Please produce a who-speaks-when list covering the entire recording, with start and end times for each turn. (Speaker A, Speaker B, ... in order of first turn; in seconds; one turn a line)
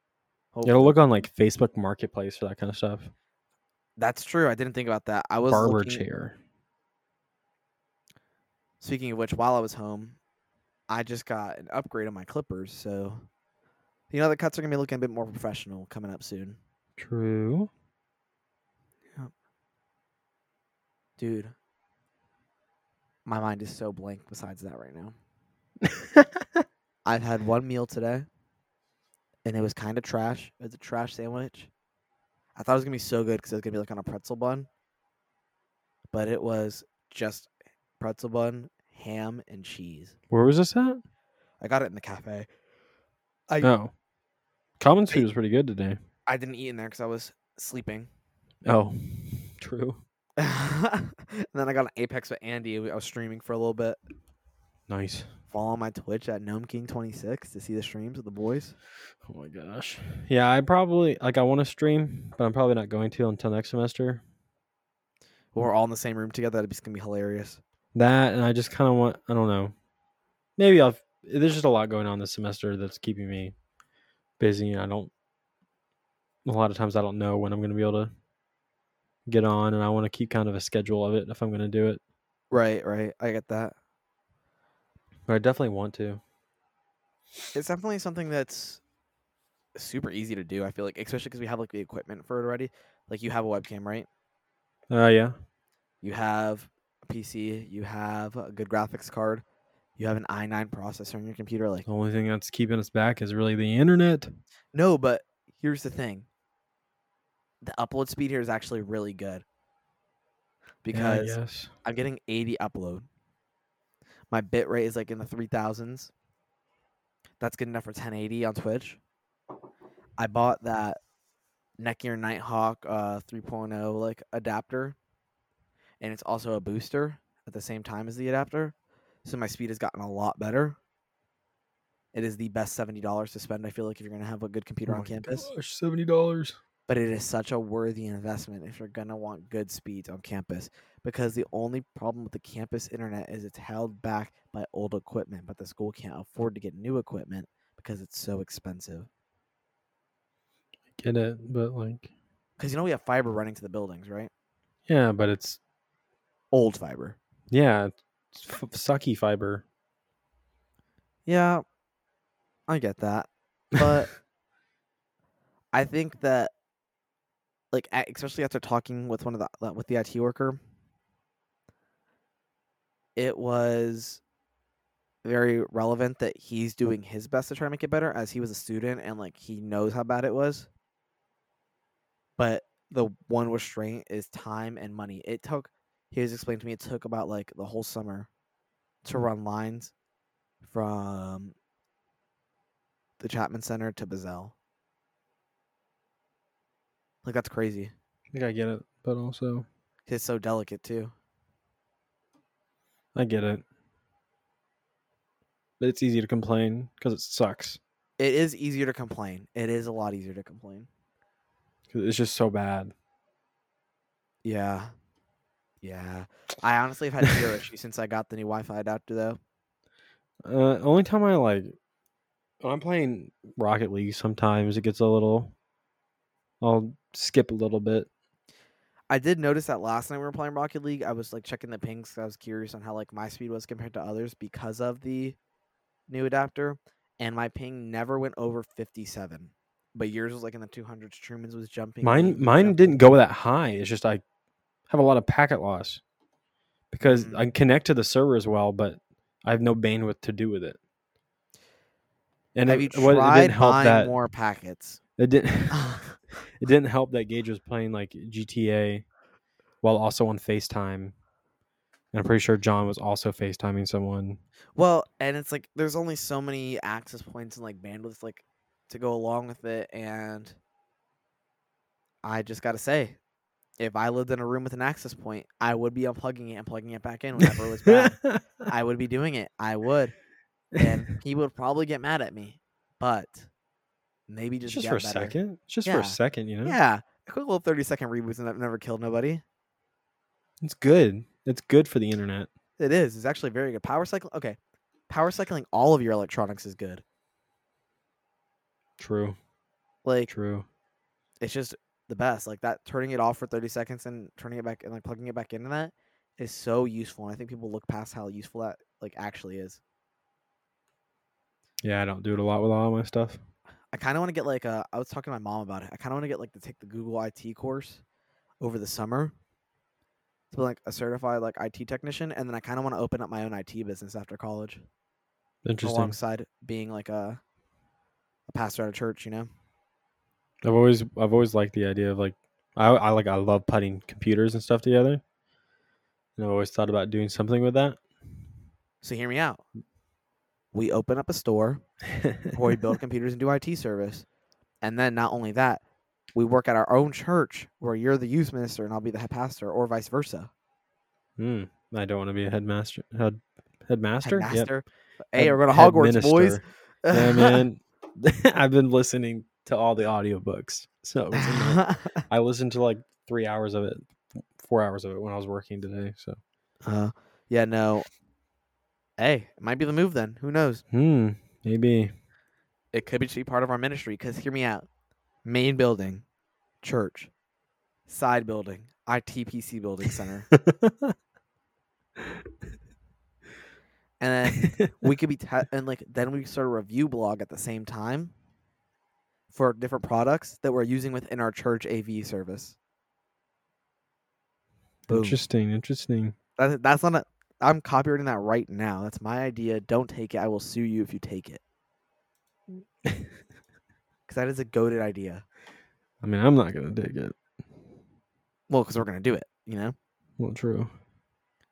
Speaker A: 0.5-1.2
Speaker B: 0.6-3.1
Speaker A: 4.0-6.0
Speaker B: 5.5-6.3
Speaker A: 8.8-10.2
Speaker A: 10.9-13.2
Speaker A: 14.1-16.6
Speaker B: 17.0-17.7
Speaker A: 21.2-21.5
Speaker A: 23.2-25.1
Speaker B: 25.8-26.6
Speaker A: 27.0-28.3
Speaker A: 29.4-31.7
Speaker A: 32.5-34.7
Speaker A: 36.1-40.1
Speaker B: 40.3-41.0
Speaker A: 41.6-42.5
Speaker B: 43.6-43.9
Speaker B: 44.8-46.0
Speaker A: 46.3-48.1
Speaker B: 48.6-50.0
Speaker A: 50.4-54.0
Speaker B: 54.9-55.3
Speaker A: 55.5-58.7
Speaker B: 59.2-64.2
Speaker A: 65.5-67.6
Speaker B: 67.9-69.7
Speaker B: 70.6-73.5
Speaker B: 74.4-75.1
Speaker B: 76.4-78.1
Speaker B: 79.3-82.0
Speaker A: 82.5-83.7
Speaker B: 85.3-86.2
Speaker A: 87.5-88.8
Speaker A: 89.8-94.1
Speaker B: 94.9-95.3
Speaker A: 96.0-99.4
Speaker A: 100.0-101.8
Speaker B: 101.8-104.3
Speaker A: 104.7-106.3
Speaker A: 107.6-109.4
Speaker A: 110.8-113.1
Speaker B: 110.9-111.7
Speaker A: 114.3-116.1
Speaker A: 117.4-119.0
Speaker A: 120.2-121.0
Speaker A: 121.8-125.0
Speaker A: 126.0-130.8
Speaker A: 132.1-135.5
Speaker B: 134.8-136.6
Speaker A: 136.9-149.1
Speaker B: 150.9-152.1
Speaker A: 152.6-154.3
Speaker B: 154.9-155.6
Speaker A: 156.5-157.2
Speaker B: 157.5-159.6
Speaker A: 161.2-161.6
Speaker A: 162.7-164.1
Speaker B: 163.8-164.0
Speaker A: 165.7-166.5
Speaker A: 167.7-170.6
Speaker A: 173.2-174.2
Speaker A: 175.2-180.7
Speaker A: 182.4-188.3
Speaker A: 189.0-189.9
Speaker A: 190.6-191.5
Speaker A: 193.2-194.5
Speaker A: 197.2-197.9
Speaker B: 198.3-199.7
Speaker A: 200.1-201.1
Speaker B: 203.1-203.6
Speaker B: 205.8-207.8
Speaker A: 208.2-210.9
Speaker B: 211.9-212.9
Speaker A: 214.4-214.9
Speaker A: 215.8-219.4
Speaker B: 220.4-221.7
Speaker B: 222.6-225.5
Speaker B: 226.6-228.1
Speaker A: 229.1-235.4
Speaker A: 236.1-243.2
Speaker B: 242.0-244.2
Speaker B: 244.9-246.0
Speaker B: 246.9-250.8
Speaker A: 247.0-247.5
Speaker B: 252.5-254.1
Speaker A: 252.6-255.0
Speaker B: 255.2-255.9
Speaker A: 255.7-256.2
Speaker B: 256.6-259.1
Speaker B: 259.8-261.1
Speaker B: 262.1-264.4
Speaker A: 264.8-270.6
Speaker A: 272.2-273.2
Speaker A: 273.8-280.1
Speaker B: 277.4-278.4
Speaker A: 280.8-283.5
Speaker A: 284.3-289.4
Speaker B: 284.6-286.8
Speaker B: 290.6-292.5
Speaker A: 292.8-294.6
Speaker A: 295.1-297.0
Speaker B: 299.0-299.4
Speaker A: 300.0-300.3
Speaker B: 300.3-300.6
Speaker A: 301.4-309.8
Speaker B: 311.8-313.4
Speaker A: 313.9-318.0
Speaker A: 318.6-319.3
Speaker A: 320.5-324.8
Speaker B: 325.6-326.2
Speaker A: 325.8-327.4
Speaker A: 328.5-329.5
Speaker B: 330.6-335.2
Speaker B: 336.4-338.0
Speaker A: 339.0-339.6
Speaker A: 340.7-341.8
Speaker B: 342.1-342.5
Speaker A: 342.5-344.2
Speaker A: 344.8-345.8
Speaker A: 346.3-350.5
Speaker B: 351.4-354.7
Speaker A: 354.2-357.6
Speaker B: 355.4-366.4
Speaker A: 361.3-362.2
Speaker A: 366.8-368.1
Speaker A: 369.2-370.8
Speaker B: 370.9-372.1
Speaker A: 372.9-374.9
Speaker A: 375.4-376.2
Speaker A: 376.8-377.3
Speaker A: 378.1-380.5
Speaker B: 380.0-381.1
Speaker A: 384.2-388.3
Speaker B: 384.5-384.9
Speaker A: 389.5-392.8
Speaker B: 395.1-396.3
Speaker A: 395.1-395.4
Speaker A: 396.6-401.6
Speaker B: 403.0-403.3
Speaker A: 404.3-405.4
Speaker B: 406.2-407.4
Speaker A: 408.7-409.9
Speaker B: 410.4-410.9